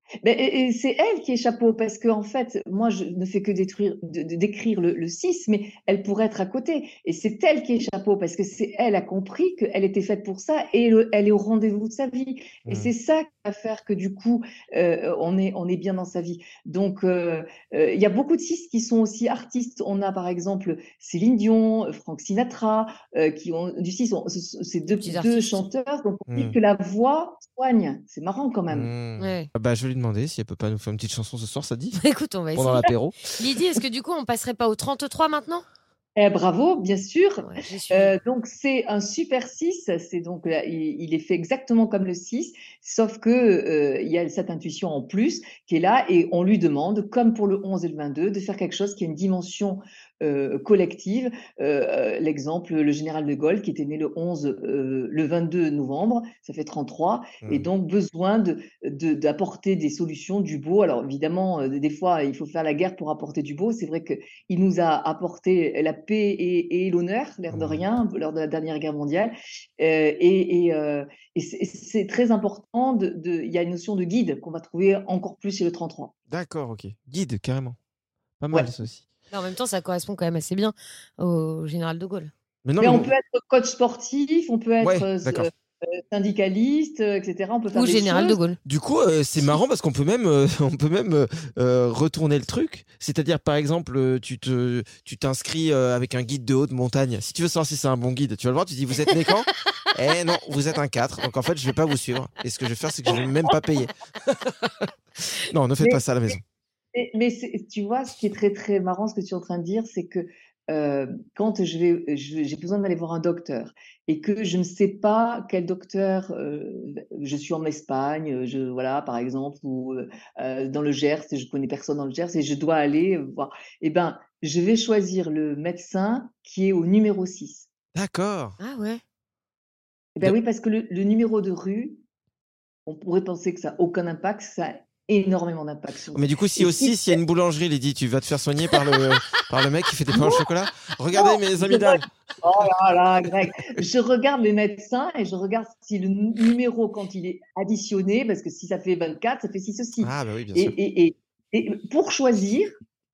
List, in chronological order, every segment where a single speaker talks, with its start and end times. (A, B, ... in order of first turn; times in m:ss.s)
0:00.2-0:28.9 A
0:24.9-0:25.6 B
0:26.3-0:26.5 C
0:28.7-0:32.0 C
0:29.2-0:29.5 B
0:32.0-0:35.6 B
0:32.5-0:33.4 C
0:36.2-1:16.1 A
0:37.4-0:38.1 B
1:07.5-1:07.8 C
1:16.3-1:17.8 C
1:18.4-1:19.0 C
1:19.3-1:22.3 B
1:22.6-1:23.1 C
1:22.8-1:28.4 A
1:24.8-1:25.5 C
1:27.7-1:28.6 B
1:28.6-1:46.4 C
1:46.9-2:07.7 A
2:07.9-2:08.6 C
2:08.6-2:09.0 B
2:10.1-2:12.0 A
2:12.8-2:17.2 A
2:16.1-2:22.1 C
2:20.1-2:20.4 A
2:21.1-2:32.7 A
2:30.0-2:30.8 C